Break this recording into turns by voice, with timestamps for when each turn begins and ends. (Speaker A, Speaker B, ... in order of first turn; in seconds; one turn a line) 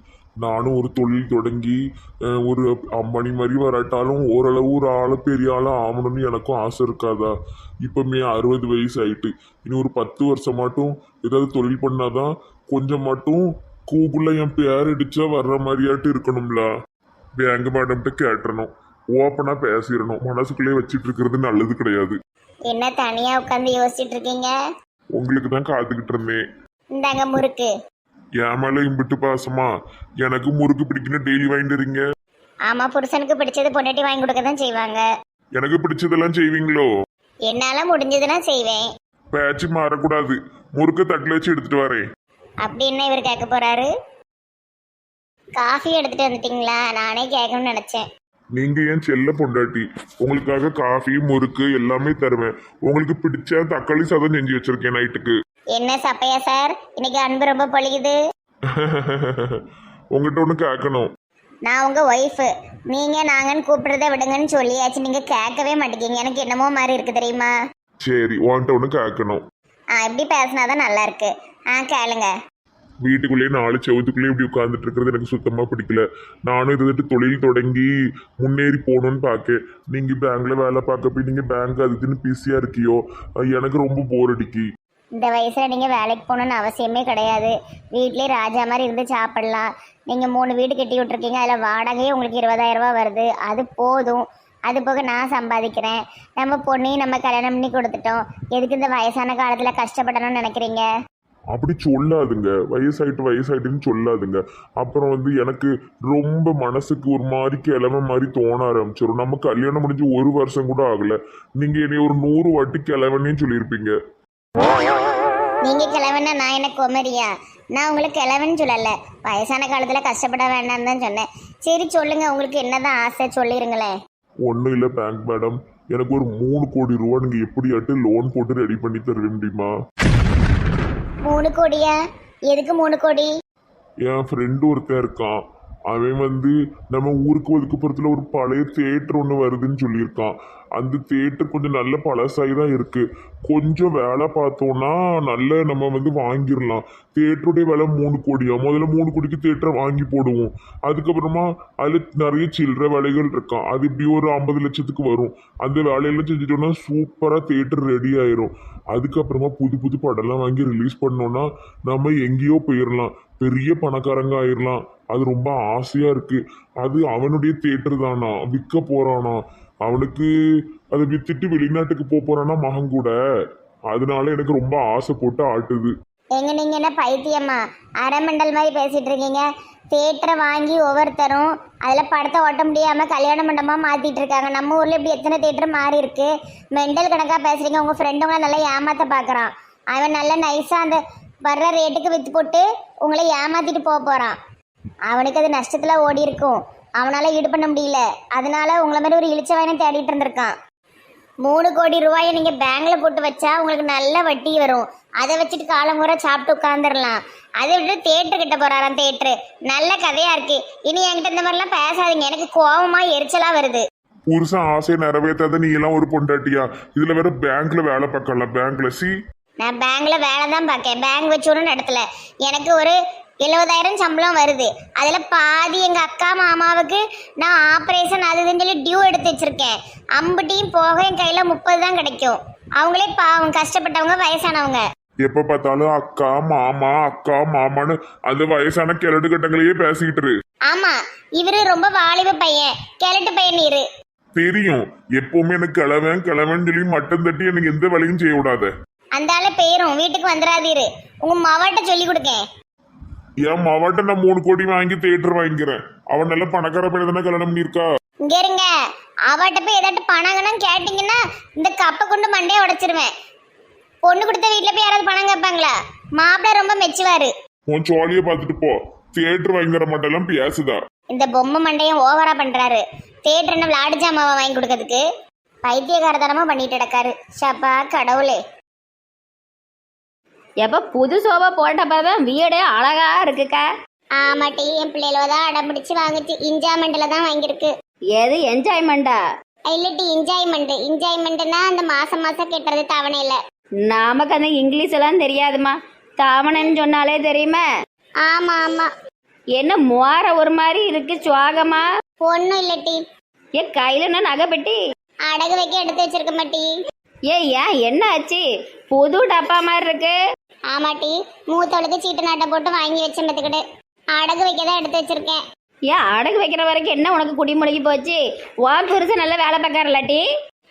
Speaker A: 0.4-1.8
Speaker A: 2.3-7.3
Speaker A: 7.8-16.7
Speaker A: 17.4-22.2
Speaker B: 22.7-24.5
Speaker A: 25.2-26.4
Speaker B: 27.0-27.7
Speaker A: 28.4-29.7
Speaker A: 30.2-32.0
Speaker B: 32.7-35.1
Speaker A: 35.6-36.9
Speaker B: 37.5-38.9
Speaker A: 39.3-42.0
Speaker B: 42.6-43.9
Speaker B: 45.6-48.0
Speaker A: 48.5-55.3
Speaker B: 55.8-58.2
Speaker A: 58.7-59.6
Speaker A: 60.1-61.1
Speaker B: 61.7-67.5
Speaker A: 68.0-69.4
Speaker B: 70.0-72.3
Speaker A: 73.0-84.7
Speaker B: 85.2-100.8
Speaker A: 101.5-114.0
Speaker B: 115.7-123.9
Speaker A: 124.4-129.7
Speaker B: 131.3-132.0
Speaker B: 132.5-133.3
Speaker A: 134.0-135.4
Speaker A: 135.9-170.3
Speaker A: 170.9-173.2
Speaker A: 173.9-175.9
Speaker B: 176.4-194.4
Speaker B: 195.1-200.5
Speaker B: 201.4-213.8
Speaker A: 214.3-219.1
Speaker B: 219.6-234.8
Speaker A: 235.2-240.3
Speaker B: 240.7-243.9
Speaker A: 244.4-248.7
Speaker B: 249.2-252.4
Speaker A: 253.4-257.9
Speaker B: 258.2-258.7
Speaker B: 259.3-263.1
Speaker B: 264.1-267.3
Speaker A: 267.7-270.8
Speaker B: 271.1-275.1
Speaker B: 275.7-278.4
Speaker C: 280.6-283.6
Speaker B: 284.2-287.7
Speaker C: 288.2-289.2
Speaker B: 289.7-293.4
Speaker C: 293.9-297.6
Speaker B: 298.2-298.9
Speaker C: 299.6-301.9
Speaker B: 302.2-303.0
Speaker C: 303.6-304.8
Speaker B: 305.3-306.7
Speaker C: 307.3-310.2
Speaker B: 310.7-313.6
Speaker B: 314.1-315.4
Speaker C: 315.9-320.2